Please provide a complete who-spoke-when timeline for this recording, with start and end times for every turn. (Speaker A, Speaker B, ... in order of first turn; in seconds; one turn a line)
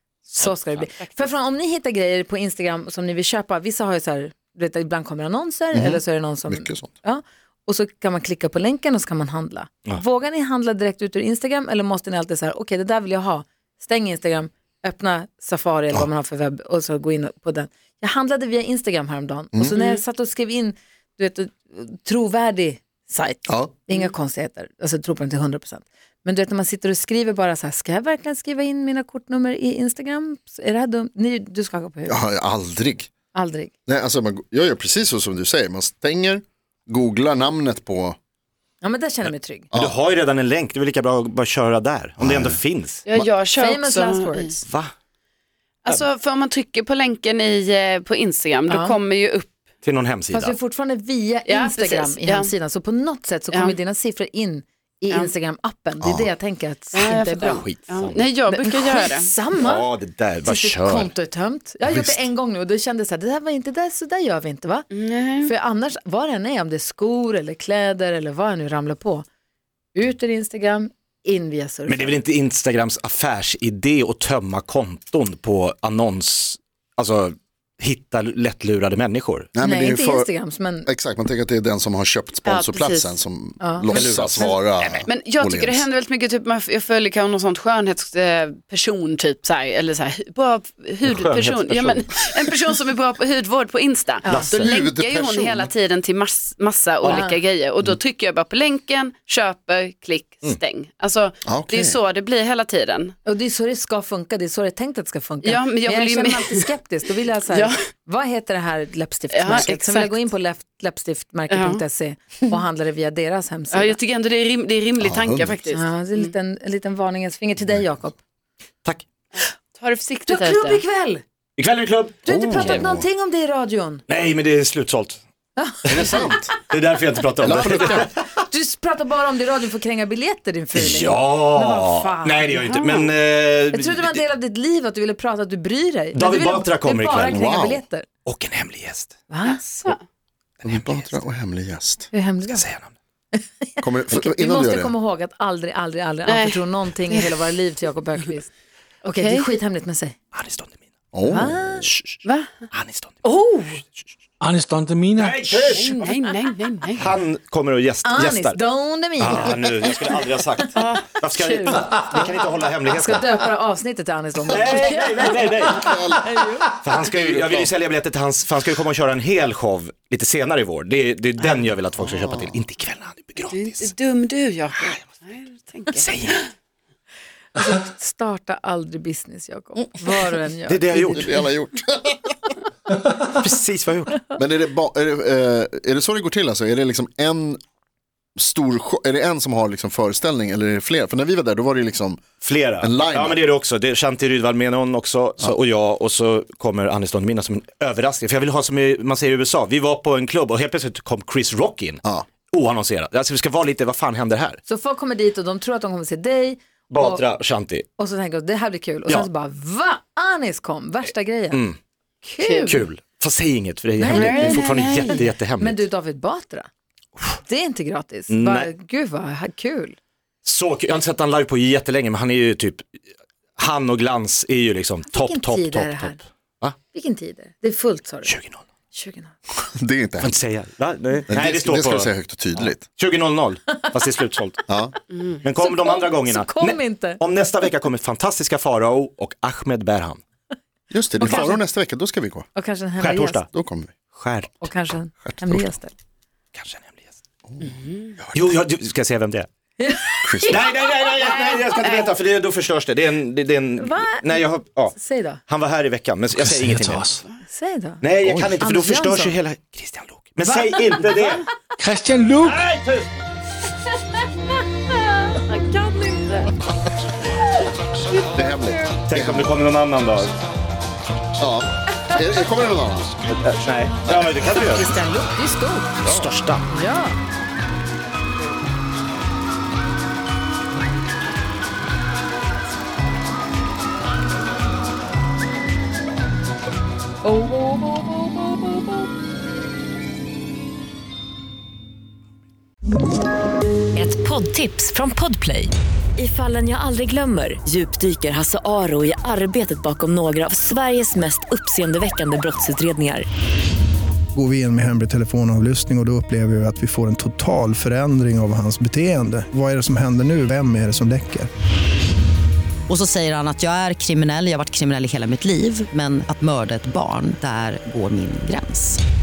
Speaker A: 0.3-32.2
Speaker B: 0.4-0.8
Speaker C: 1.0-1.3
Speaker D: 5.7-6.9
Speaker D: 32.1-33.1
Speaker A: 33.3-33.7
Speaker D: 33.9-38.1
Speaker A: 38.8-39.7
Speaker B: 39.2-43.0
Speaker D: 42.2-42.6
Speaker C: 43.0-44.5
Speaker A: 43.5-44.6
Speaker B: 44.6-44.9
Speaker C: 45.8-49.6
Speaker A: 48.7-49.0
Speaker B: 49.8-50.5
Speaker A: 50.3-57.7
Speaker C: 51.5-52.5
Speaker D: 56.0-56.3
Speaker C: 56.9-59.3
Speaker B: 57.4-58.2
Speaker A: 58.5-59.9
Speaker B: 59.5-61.1
Speaker A: 60.4-64.9
Speaker D: 61.8-62.3
Speaker C: 64.9-65.5
Speaker A: 65.4-69.2
Speaker A: 69.9-72.2
Speaker B: 71.9-79.5
Speaker D: 79.5-80.3
Speaker A: 79.6-80.9
Speaker D: 80.8-85.8
Speaker C: 82.5-83.2
Speaker A: 83.6-84.6
Speaker B: 83.8-85.1
Speaker C: 85.1-103.1
Speaker B: 91.0-92.1
Speaker A: 94.2-94.5
Speaker B: 94.3-94.6
Speaker D: 94.5-95.7
Speaker A: 97.1-97.4
Speaker D: 101.5-102.0
Speaker A: 103.2-114.0
Speaker C: 105.4-106.6
Speaker C: 107.5-107.7
Speaker C: 109.3-110.1
Speaker C: 111.5-111.8
Speaker C: 113.7-116.3
Speaker D: 115.0-115.5
Speaker A: 115.7-118.2
Speaker D: 117.7-117.9
Speaker C: 119.8-120.8
Speaker A: 120.3-121.2
Speaker B: 121.6-122.8
Speaker A: 122.2-124.0
Speaker D: 122.3-123.0
Speaker B: 124.1-125.2
Speaker A: 125.5-126.4
Speaker D: 125.8-126.5
Speaker B: 126.0-128.2
Speaker D: 127.4-128.1
Speaker A: 127.7-133.0
Speaker B: 130.7-134.2
Speaker A: 133.7-138.1
Speaker B: 136.1-137.5
Speaker D: 137.3-137.8
Speaker B: 138.2-139.2
Speaker A: 139.3-139.9
Speaker C: 139.4-140.0
Speaker B: 140.6-141.2
Speaker D: 140.6-142.1
Speaker A: 142.1-142.7
Speaker B: 142.5-142.9
Speaker A: 143.3-148.5
Speaker D: 143.8-144.9
Speaker C: 146.2-147.3
Speaker A: 149.0-150.1
Speaker C: 149.1-149.4
Speaker B: 150.3-150.8
Speaker D: 151.1-151.8
Speaker A: 151.3-151.9
Speaker B: 151.7-152.2
Speaker C: 152.2-152.5
Speaker B: 152.7-153.2
Speaker C: 153.2-153.8
Speaker E: 154.4-155.8
Speaker B: 155.2-156.0
Speaker C: 155.7-157.1
Speaker B: 156.9-158.6
Speaker A: 158.0-160.7
Speaker B: 159.2-163.2
Speaker C: 160.7-161.1
Speaker A: 161.3-162.3
Speaker A: 162.8-164.9
Speaker B: 164.5-166.0
Speaker C: 164.6-165.3
Speaker D: 165.7-166.3
Speaker A: 166.2-166.6
Speaker B: 166.8-173.9
Speaker D: 167.1-167.7
Speaker D: 172.0-172.6
Speaker C: 173.5-176.1
Speaker B: 175.9-176.4
Speaker A: 177.6-181.2
Speaker B: 180.7-181.4
Speaker D: 181.0-182.3
Speaker B: 183.2-184.3
Speaker D: 184.3-187.6
Speaker D: 188.3-192.2
Speaker B: 192.4-204.6
Speaker D: 192.8-193.4
Speaker A: 204.7-207.2
Speaker B: 206.9-207.8
Speaker A: 208.0-211.6
Speaker B: 211.5-211.8
Speaker A: 212.2-212.8
Speaker C: 212.4-212.8
Speaker B: 212.7-215.8
Speaker A: 214.0-216.7
Speaker C: 214.1-215.2
Speaker A: 217.4-219.9
Speaker B: 218.3-218.7
Speaker B: 220.4-222.9
Speaker B: 223.6-226.8
Speaker A: 225.1-226.2
Speaker A: 226.8-228.3
Speaker B: 228.2-228.6
Speaker A: 228.9-229.3
Speaker D: 229.7-230.3
Speaker B: 230.2-234.6
Speaker D: 231.3-232.8
Speaker D: 234.7-234.9
Speaker B: 235.4-240.2
Speaker A: 235.5-237.2
Speaker D: 240.9-242.5
Speaker A: 241.2-241.6
Speaker B: 241.2-241.5
Speaker A: 242.5-243.4
Speaker B: 243.0-243.5
Speaker D: 243.5-243.9
Speaker B: 244.1-244.6
Speaker A: 244.6-245.9
Speaker D: 245.2-245.8
Speaker B: 246.5-247.0
Speaker C: 247.6-248.1
Speaker B: 248.3-249.5
Speaker A: 249.8-251.6
Speaker D: 250.2-250.6
Speaker B: 250.5-257.1
Speaker C: 251.2-252.2
Speaker A: 253.8-255.4
Speaker E: 256.3-257.2
Speaker A: 257.5-258.0
Speaker B: 258.0-261.5
Speaker D: 258.2-258.6
Speaker A: 258.6-259.4
Speaker A: 260.4-261.0
Speaker E: 261.8-262.6
Speaker B: 262.4-263.1
Speaker A: 265.2-266.5
Speaker D: 268.3-269.5
Speaker B: 269.1-270.4
Speaker D: 271.4-273.1
Speaker B: 273.3-274.9
Speaker A: 274.7-275.9
Speaker B: 276.0-276.6
Speaker A: 276.7-277.2
Speaker F: 293.9-303.2
Speaker G: 304.3-311.5
Speaker H: 312.9-319.0